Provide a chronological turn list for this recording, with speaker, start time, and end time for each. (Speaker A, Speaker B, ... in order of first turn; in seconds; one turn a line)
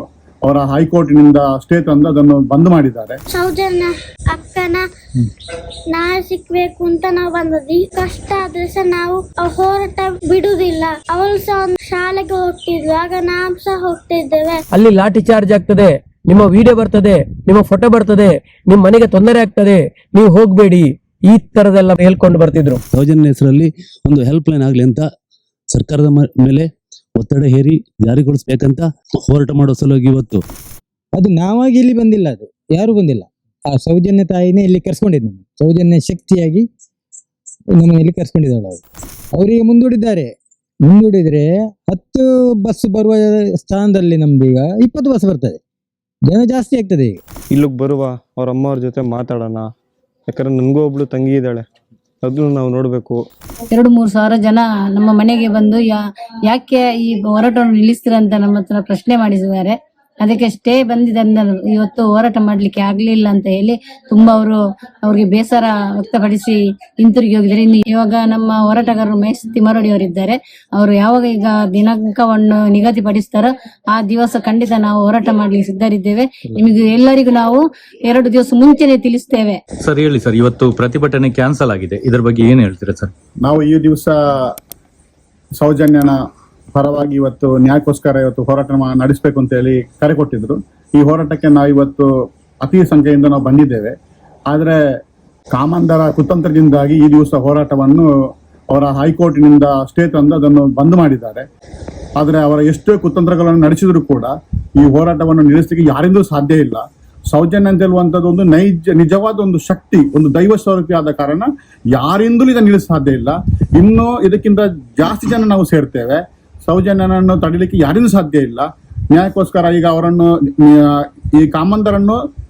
Speaker A: 0.4-3.2
Speaker B: 3.3-4.8
Speaker B: 5.9-14.6
Speaker C: 14.7-22.8
Speaker D: 22.9-25.0
Speaker D: 25.7-30.4
Speaker E: 31.1-36.6
Speaker E: 37.7-38.8
Speaker E: 39.3-40.3
Speaker E: 40.9-45.6
Speaker E: 46.2-47.2
Speaker F: 47.5-49.7
Speaker F: 50.3-51.6
Speaker F: 52.2-53.2
Speaker G: 53.7-79.6
Speaker H: 79.8-83.1
Speaker A: 83.4-84.5
Speaker A: 85.6-86.2
Speaker A: 86.7-92.1
Speaker A: 92.6-93.9
Speaker A: 94.5-94.8
Speaker A: 95.5-98.1
Speaker A: 98.7-101.5
Speaker A: 102.2-122.2